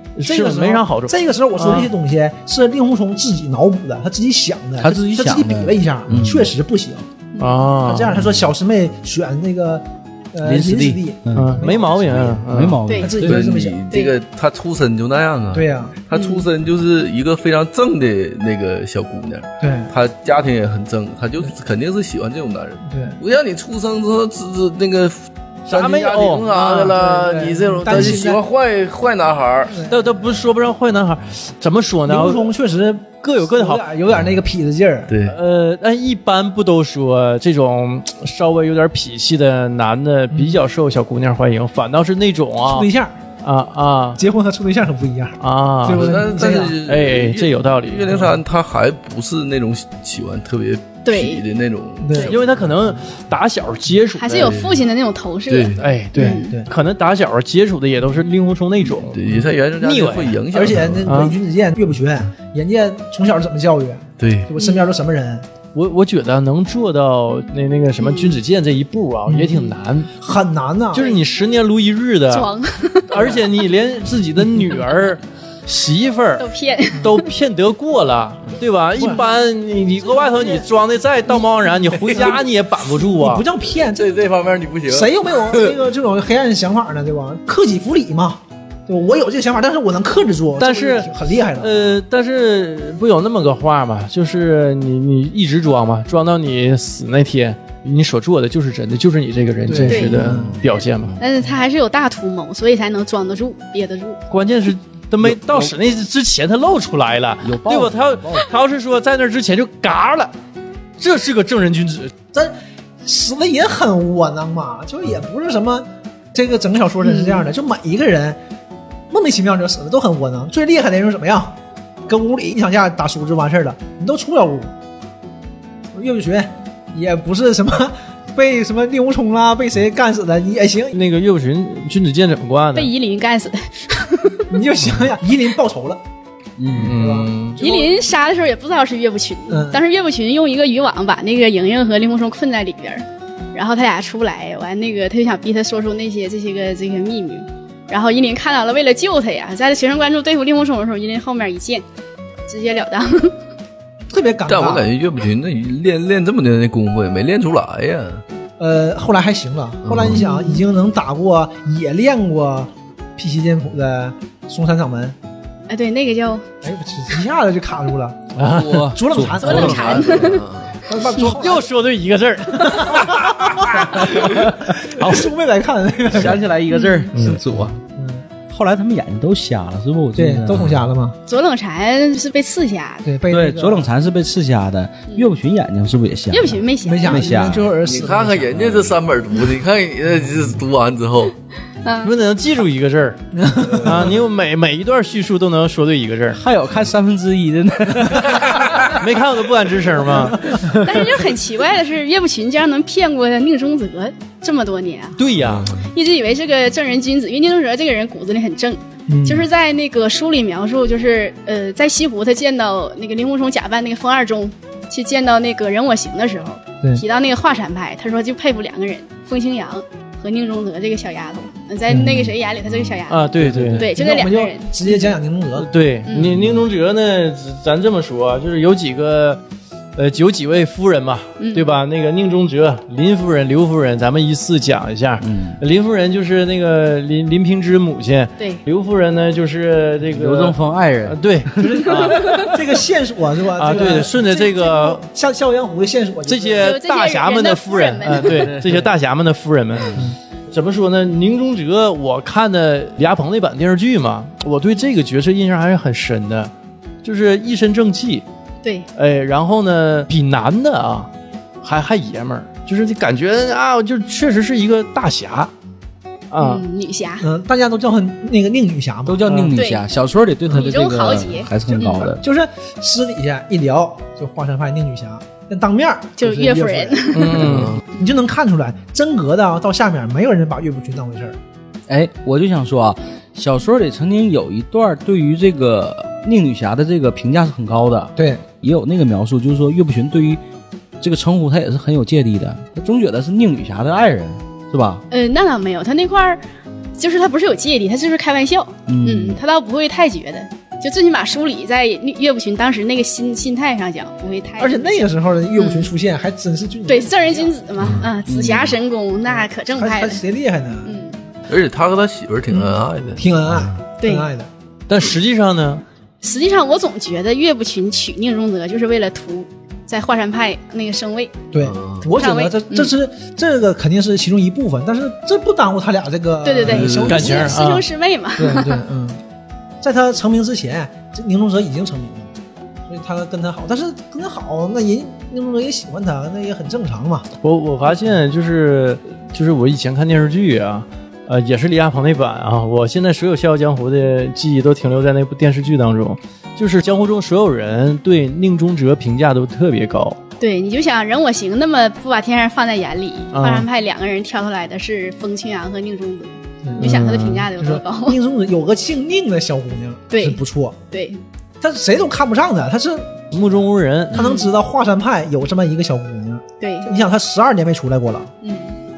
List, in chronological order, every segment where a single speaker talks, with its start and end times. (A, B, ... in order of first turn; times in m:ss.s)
0:00.2-0:01.9 A
0:00.2-0:07.1 B
0:04.8-0:06.5 C
0:07.3-0:07.6 D
0:07.4-0:08.2 A
0:07.8-0:12.4 B
0:10.4-0:13.4 C
0:11.3-0:12.8 A
0:12.9-0:13.1 D
0:13.0-0:13.8 B
0:13.2-0:29.8 E
0:15.5-0:15.9 B
0:16.1-0:16.4 D
0:19.6-0:19.9 B
0:22.8-0:23.2 B
0:25.7-0:28.2 A
0:27.0-0:28.4 B
0:29.7-0:30.1 B
0:29.8-0:32.5 A
0:32.1-0:35.1 B
0:33.2-0:33.8 A
0:35.1-0:35.4 E
0:35.2-0:42.9 A
0:40.3-0:40.6 B
0:42.6-0:43.2 B
0:43.4-0:44.2 A
0:44.2-0:46.8 B
0:45.4-0:48.2 A
0:45.9-0:52.4 E
0:51.0-0:51.4 D
0:52.0-0:52.4 B
0:52.2-0:54.5 A
0:54.2-0:56.5 D
0:54.4-0:54.8 E
0:55.5-0:55.8 E
0:55.8-0:59.2 A
0:56.4-0:56.7 B
0:59.0-1:01.1 E
0:59.8-1:00.4 A
1:00.5-1:05.4 B
1:01.0-1:01.4 A
1:04.2-1:04.5 E
1:04.6-1:04.9 D
1:05.7-1:10.1 A
1:08.0-1:08.4 D
1:09.2-1:09.6 B
1:10.2-1:11.1 B
1:10.9-1:11.2 D
1:10.9-1:12.5 A
1:12.3-1:13.4 D
1:13.1-1:16.5 A
1:16.4-1:17.3 D
1:17.0-1:23.4 A
1:19.0-1:19.2 B
1:21.9-1:24.2 B
1:23.9-1:25.7 E
1:24.9-1:31.9 B
1:30.6-1:41.2 A
1:39.7-1:40.6 B
1:39.9-1:40.3 D
1:41.2-1:44.2 D
1:44.3-1:50.3 A
1:45.3-1:45.7 C
1:47.4-1:48.5 C
1:51.0-1:52.1 A
1:52.3-1:58.4 B
1:57.0-1:57.4 D
1:59.1-2:04.7 B
2:05.9-2:11.0 B
2:10.9-2:12.9 A
2:12.7-2:14.6 D
2:14.5-2:16.0 B
2:16.6-2:16.9 C
2:16.7-2:17.6 A
2:16.8-2:17.9 B
2:17.6-2:31.8 D
2:19.5-2:19.8 B
2:32.5-2:33.4 D
2:34.1-2:34.9 B
2:34.5-2:38.2 E
2:38.6-2:45.2 B
2:39.8-2:40.2 E
2:40.1-2:40.7 D
2:45.7-2:46.5 D
2:46.6-2:48.2 B
2:48.4-2:49.0 A
2:48.4-2:50.2 C
2:48.9-2:50.2 B
2:49.4-2:51.4 D
2:49.4-2:50.7 E
2:50.8-2:51.6 B
2:51.2-2:55.3 A
2:52.5-2:56.4 B
2:56.1-2:57.8 C
2:56.7-2:57.1 D
2:57.1-2:57.4 A
2:57.8-2:58.3 B
2:58.4-3:00.7 C
3:00.2-3:01.2 B
3:01.3-3:03.1 D
3:03.0-3:03.9 B
3:03.3-3:07.7 C
3:06.3-3:07.4 D
3:06.8-3:09.0 B
3:07.7-3:11.3 E
3:11.8-3:12.1 D
3:12.0-3:13.2 A
3:13.3-3:14.2 B
3:13.8-3:16.4 A
3:16.3-3:18.8 C
3:18.8-3:21.0 A
3:20.7-3:25.2 D
3:25.2-3:25.7 A
3:25.4-3:25.9 E
3:25.8-3:44.7 D
3:29.1-3:29.4 B
3:41.9-3:42.3 B
3:43.1-3:43.9 A
3:43.4-3:43.8 C
3:43.8-3:45.7 B
3:45.6-3:49.4 A
3:46.2-3:46.6 C
3:50.0-4:02.6 A
3:51.4-3:51.7 D
3:55.2-3:55.6 C
4:00.1-4:01.8 C
4:01.6-4:06.7 B
4:02.2-4:02.5 D
4:03.6-4:05.0 A
4:06.3-4:16.5 A
4:06.6-4:08.5 D
4:17.0-4:18.2 A
4:18.6-4:18.9 D
4:19.0-4:21.1 A
4:21.6-4:25.5 A
4:26.3-4:26.6 A
4:26.4-4:27.3 D
4:27.2-4:29.2 B
4:29.1-4:32.2 C
4:29.3-4:29.5 A
4:29.5-4:29.8 D
4:30.5-4:32.0 D
4:31.7-4:41.4 B
4:36.2-4:37.6 D
4:37.1-4:37.8 A
4:37.4-4:37.8 E
4:41.9-4:50.4 C
4:48.2-4:48.4 B
4:51.0-4:55.0 C
4:55.1-4:56.4 D
4:57.0-5:05.0 D
4:58.9-4:59.4 C
5:04.6-5:08.0 B
5:05.6-5:05.9 D
5:06.9-5:10.2 D
5:08.2-5:08.7 C
5:09.3-5:11.0 B
5:10.8-5:11.2 D
5:11.5-5:13.8 E
5:12.6-5:14.5 B
5:14.0-5:14.3 D
5:14.9-5:15.8 A
5:16.2-5:21.4 D
5:21.5-5:27.6 B
5:21.6-5:22.0 E
5:22.0-5:22.9 D
5:26.4-5:28.8 D
5:26.6-5:27.2 E
5:27.1-5:27.8 A
5:28.4-5:29.2 B
5:29.8-5:32.3 B
5:32.8-5:37.3 B
5:37.4-5:50.2 A
5:50.4-5:58.2 D
5:53.3-5:53.6 A
5:56.6-5:57.0 B
5:56.8-5:57.5 A
5:57.6-6:00.8 B
6:00.1-6:01.2 D
6:01.6-6:03.2 B
6:03.3-6:04.3 A
6:04.1-6:08.3 B
6:04.1-6:04.5 D
6:06.6-6:06.9 D
6:08.4-6:08.8 D